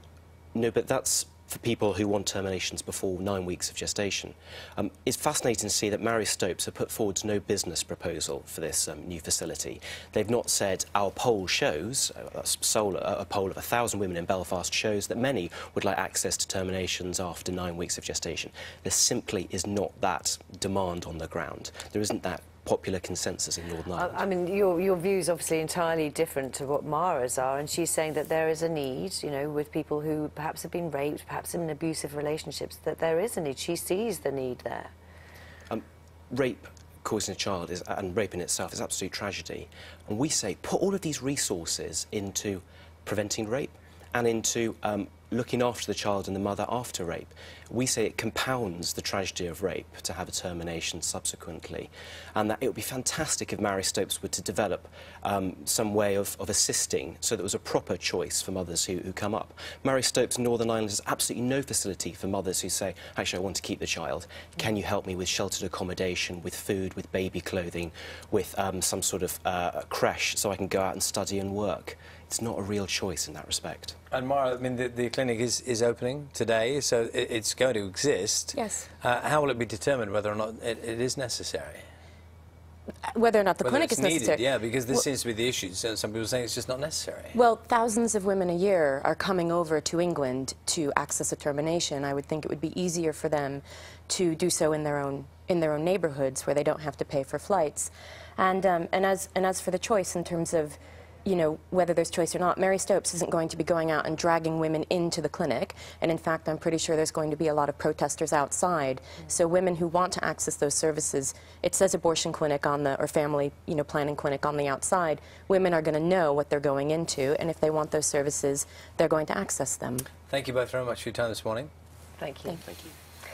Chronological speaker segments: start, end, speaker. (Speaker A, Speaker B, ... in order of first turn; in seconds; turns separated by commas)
Speaker A: 0.5-24.2, Speaker B: 23.9-34.9, Speaker A: 35.7-74.0, Speaker C: 74.1-81.8, Speaker D: 78.5-78.9, Speaker D: 83.1-84.4, Speaker C: 83.6-87.4, Speaker D: 87.3-120.1, Speaker C: 120.3-121.7, Speaker B: 122.2-122.6, Speaker A: 122.7-122.9